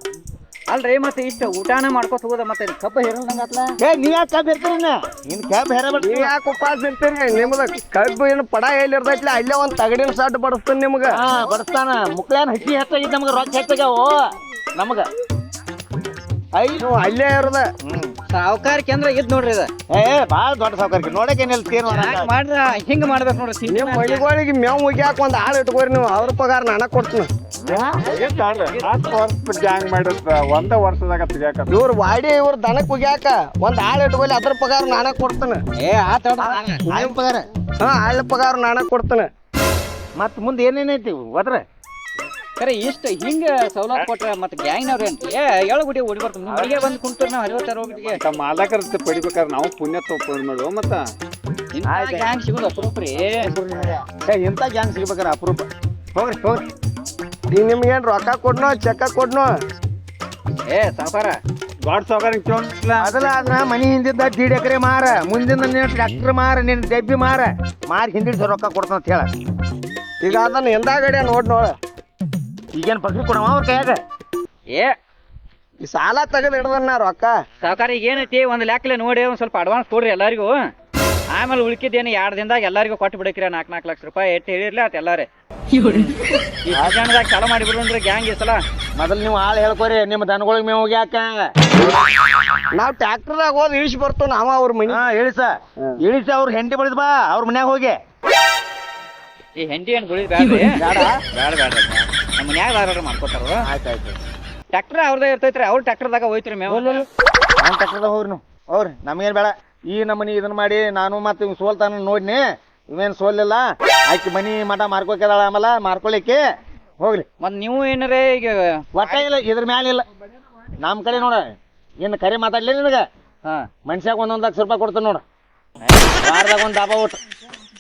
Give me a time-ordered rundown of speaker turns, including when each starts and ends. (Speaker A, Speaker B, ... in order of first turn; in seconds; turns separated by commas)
Speaker A: 0.7-3.7, Speaker B: 3.8-6.3, Speaker C: 6.0-11.2, Speaker B: 11.1-14.2, Speaker B: 14.8-15.1, Speaker B: 16.5-16.9, Speaker C: 16.8-17.7, Speaker B: 17.9-18.1, Speaker A: 18.3-19.7, Speaker B: 19.9-22.3, Speaker A: 21.9-24.2, Speaker C: 23.7-27.3, Speaker D: 27.9-31.8, Speaker C: 31.7-35.6, Speaker A: 35.8-36.8, Speaker B: 36.4-37.4, Speaker C: 37.8-39.3, Speaker B: 40.2-41.6, Speaker A: 42.6-48.2, Speaker B: 46.5-46.8, Speaker D: 48.1-51.0, Speaker A: 51.7-53.5, Speaker B: 51.9-52.3, Speaker B: 53.4-56.6, Speaker C: 57.5-59.5, Speaker A: 60.7-61.4, Speaker D: 61.8-63.1, Speaker B: 63.0-69.3, Speaker C: 70.2-71.7, Speaker B: 72.8-74.0, Speaker C: 75.8-77.3, Speaker A: 77.6-80.6, Speaker A: 81.3-85.3, Speaker A: 85.8-86.1, Speaker A: 86.6-88.6, Speaker B: 89.0-91.4, Speaker C: 92.7-95.0, Speaker B: 94.9-98.0, Speaker A: 99.6-100.7, Speaker B: 100.8-101.2, Speaker A: 101.3-103.6, Speaker B: 103.7-104.2, Speaker A: 104.7-107.0, Speaker B: 106.7-107.0, Speaker B: 107.6-116.4, Speaker B: 117.0-117.3, Speaker A: 117.4-119.2, Speaker B: 119.0-120.0, Speaker B: 120.8-121.4, Speaker B: 122.0-123.0, Speaker B: 123.9-125.2, Speaker A: 125.8-126.2, Speaker B: 126.2-127.2